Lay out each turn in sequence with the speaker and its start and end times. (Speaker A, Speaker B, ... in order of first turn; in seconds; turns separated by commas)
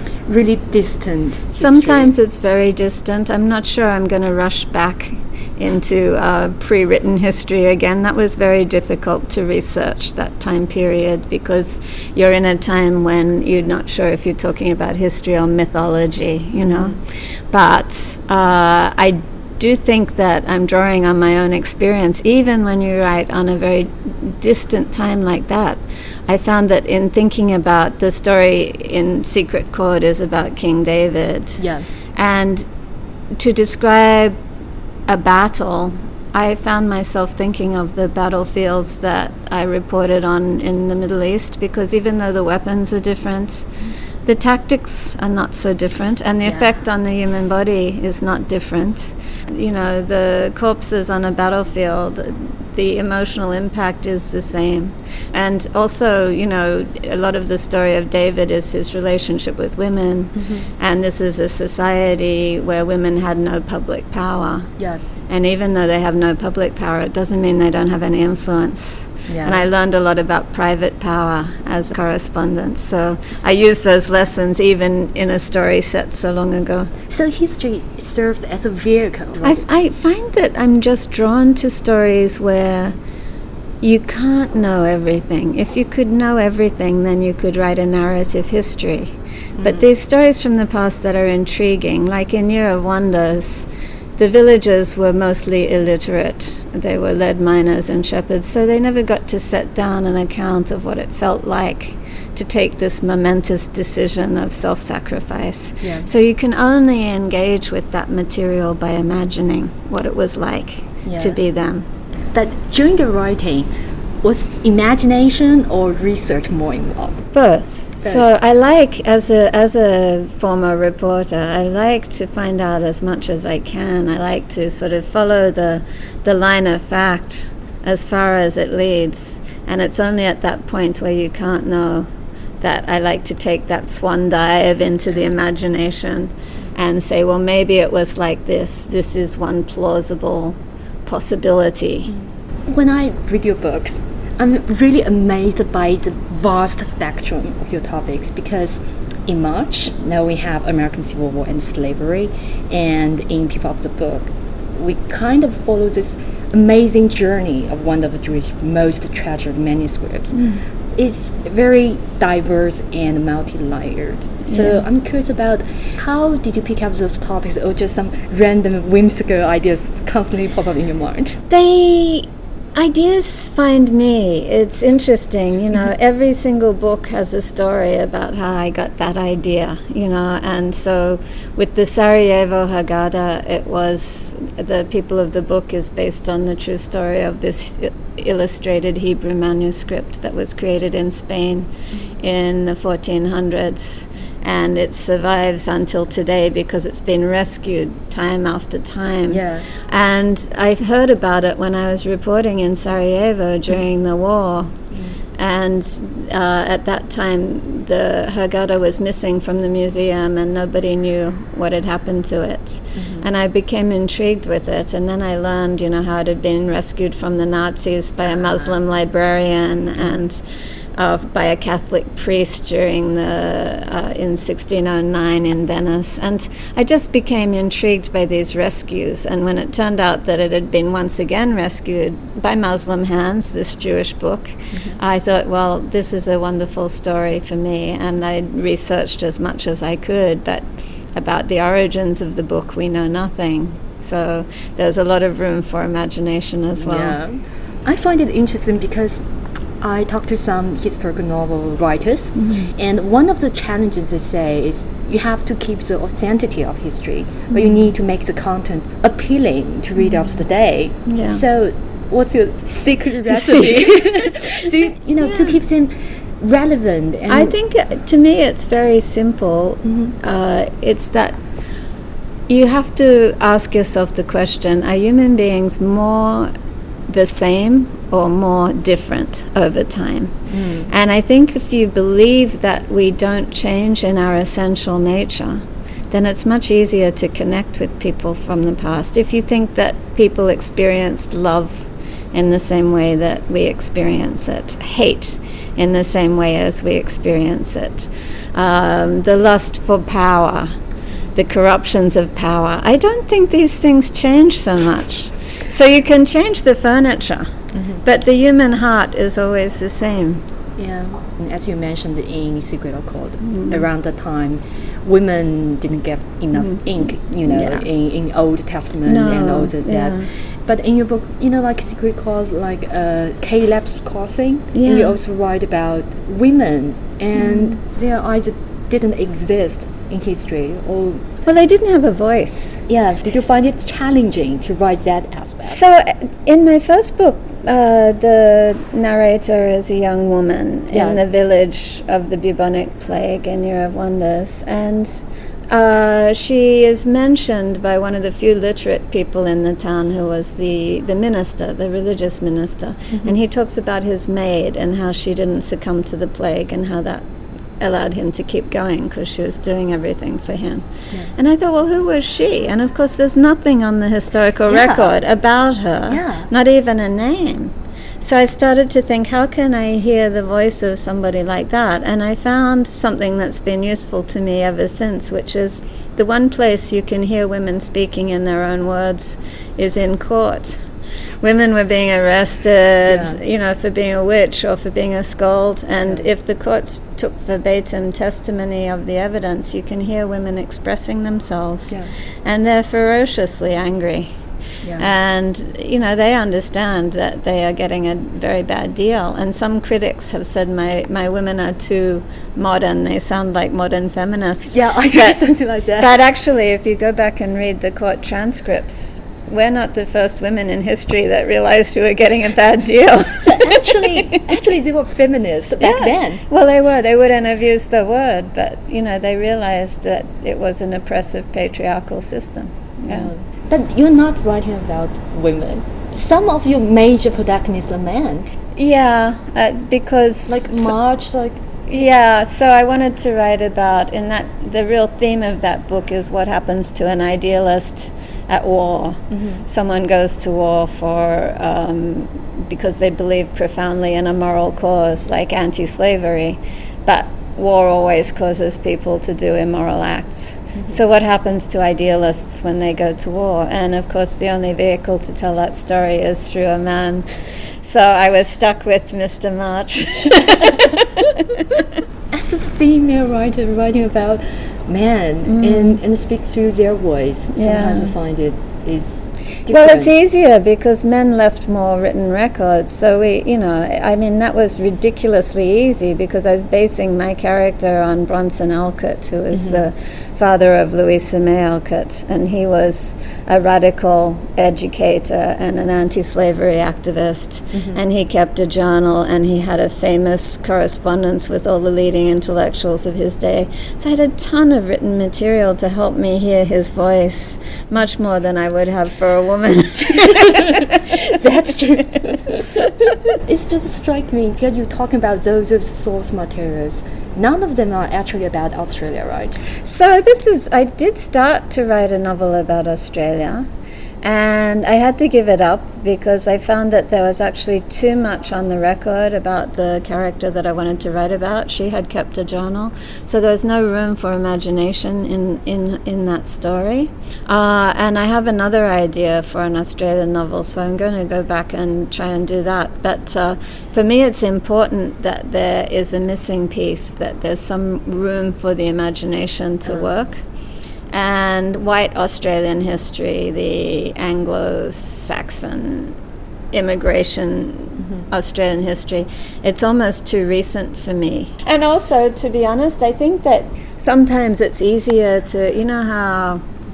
Speaker A: 0.2-2.1, Speaker B: 1.6-32.7, Speaker A: 16.6-17.0, Speaker A: 31.6-31.9, Speaker B: 33.3-34.4, Speaker B: 35.1-43.7, Speaker B: 44.2-64.7, Speaker A: 46.4-46.8, Speaker A: 60.3-60.7, Speaker B: 65.3-76.9, Speaker A: 69.3-69.7, Speaker A: 77.1-79.6, Speaker B: 79.4-83.0, Speaker B: 83.8-111.8, Speaker A: 89.5-89.9, Speaker A: 105.8-106.1, Speaker A: 111.0-111.4, Speaker A: 112.3-113.7, Speaker A: 114.2-117.2, Speaker B: 117.3-132.1, Speaker A: 118.0-118.3, Speaker B: 132.6-142.1, Speaker A: 142.1-171.4, Speaker B: 160.3-160.6, Speaker B: 164.5-164.8, Speaker B: 171.5-204.8, Speaker A: 199.3-199.7, Speaker A: 204.9-205.2, Speaker B: 205.4-220.4, Speaker A: 212.9-213.3, Speaker A: 218.3-218.8, Speaker B: 220.9-247.2, Speaker A: 234.7-235.0, Speaker A: 246.8-249.2, Speaker A: 249.8-267.6, Speaker B: 252.3-252.7, Speaker B: 257.5-257.9, Speaker B: 260.0-260.3, Speaker B: 261.0-261.4, Speaker B: 263.3-264.6, Speaker B: 265.2-265.6, Speaker B: 267.3-271.4, Speaker A: 269.8-270.1, Speaker B: 272.5-276.5, Speaker B: 277.1-300.8, Speaker A: 280.5-280.9, Speaker B: 301.4-307.5, Speaker A: 307.7-308.0, Speaker B: 308.0-310.4, Speaker A: 310.8-331.2, Speaker B: 313.4-313.9, Speaker B: 316.5-317.9, Speaker B: 319.0-320.3, Speaker B: 324.7-325.2, Speaker B: 327.4-327.8, Speaker B: 331.4-332.9, Speaker A: 332.9-335.8, Speaker B: 335.6-357.2, Speaker A: 340.9-341.2, Speaker A: 353.1-353.4, Speaker B: 357.8-380.9, Speaker A: 364.7-365.1, Speaker A: 366.1-366.5, Speaker B: 381.4-394.3, Speaker A: 383.1-383.4, Speaker A: 386.0-386.3, Speaker A: 394.8-395.1, Speaker B: 395.0-405.4, Speaker A: 404.7-406.2, Speaker B: 406.0-414.4, Speaker A: 413.4-416.4, Speaker B: 415.8-423.3, Speaker A: 423.1-428.5, Speaker B: 428.8-430.9, Speaker A: 430.5-432.1, Speaker B: 431.9-457.3, Speaker A: 439.3-439.6, Speaker B: 457.8-461.2, Speaker A: 462.3-470.1, Speaker B: 465.4-466.0, Speaker B: 467.5-468.1, Speaker B: 469.7-501.0, Speaker A: 479.5-479.9, Speaker A: 487.7-488.0, Speaker A: 501.2-502.6, Speaker A: 503.4-509.6, Speaker B: 509.8-513.7, Speaker B: 514.2-540.4, Speaker A: 539.9-540.1, Speaker B: 541.1-546.1, Speaker B: 546.7-556.6, Speaker A: 548.0-548.2